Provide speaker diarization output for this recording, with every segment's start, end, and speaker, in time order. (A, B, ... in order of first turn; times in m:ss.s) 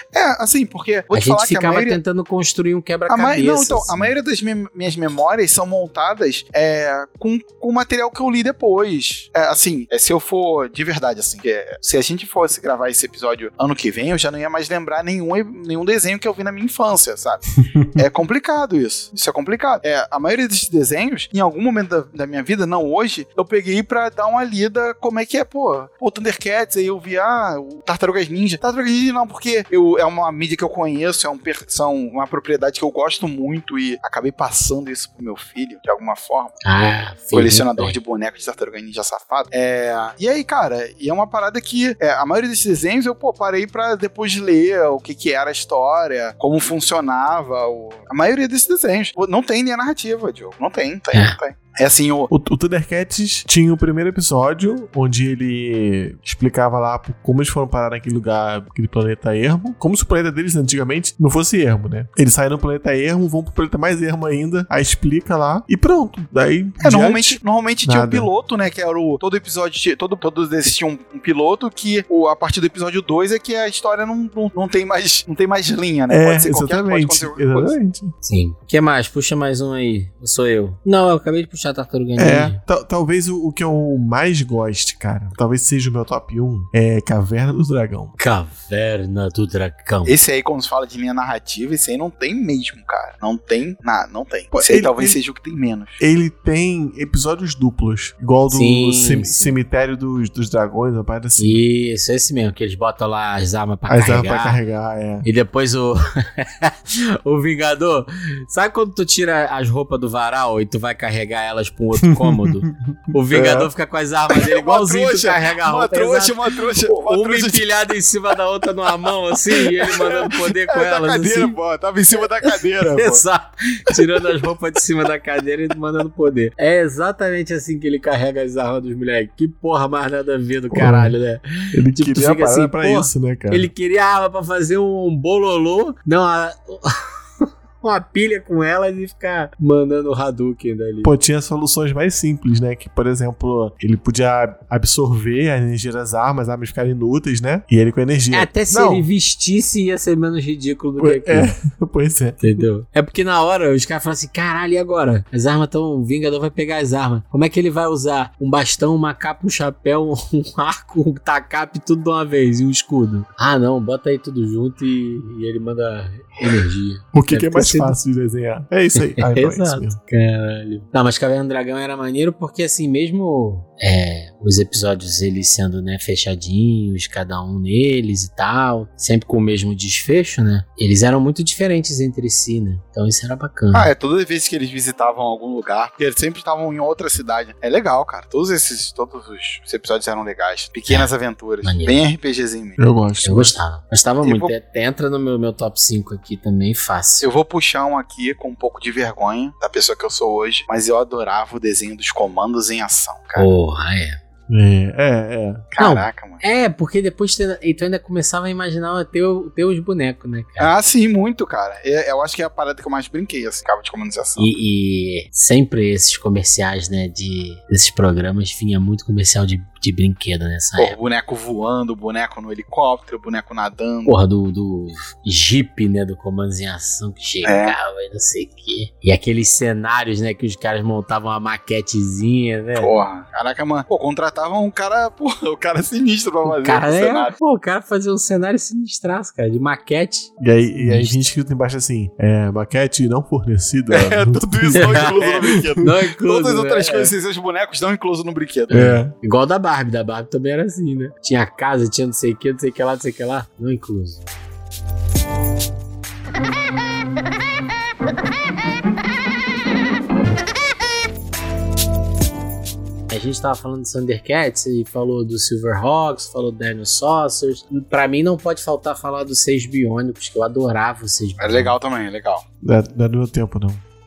0:00.1-0:02.0 A
0:01.1-0:04.1 B
0:03.1-0:36.6 A
0:36.6-0:38.0 B
0:37.3-0:52.3 A
0:52.3-1:08.3 C
1:06.8-1:17.8 A
1:16.1-1:18.1 C
1:18.2-1:22.6 B
1:22.2-1:28.2 C
1:28.2-1:30.2 B
1:30.1-1:36.0 A
1:34.5-1:35.2 C
1:36.0-1:41.6 C
1:38.5-1:39.6 B
1:41.4-1:44.6 B
1:43.9-1:45.3 C
1:45.2-2:01.6 B
1:52.0-1:53.7 C
1:54.3-1:57.7 A
1:59.6-2:03.2 A
2:02.4-2:21.1 B
2:10.7-2:11.2 C
2:11.7-2:13.7 C
2:21.0-2:29.1 C
2:28.3-2:31.5 B
2:31.0-2:32.6 C
2:32.4-2:48.0 B
2:47.1-2:50.0 C
2:49.1-3:03.9 B
3:03.7-3:12.8 A
3:11.6-3:12.0 B
3:12.8-3:13.5 C
3:13.2-3:17.3 B
3:14.2-3:14.5 A
3:17.2-3:23.5 A
3:23.4-3:24.2 B
3:24.5-3:25.7 C
3:25.7-3:26.4 A
3:25.8-3:30.7 B
3:30.6-3:34.5 A
3:34.4-3:41.0 B
3:40.8-3:44.2 A
3:44.1-3:52.9 B
3:47.4-3:47.8 A
3:52.8-3:57.4 A
3:56.5-4:01.2 B
4:00.4-4:05.8 C
4:03.9-4:08.9 A
4:04.7-4:07.1 B
4:08.7-4:09.1 C
4:08.7-4:14.2 B
4:23.1-4:31.8 B
4:31.4-4:32.4 A
4:32.6-4:33.8 C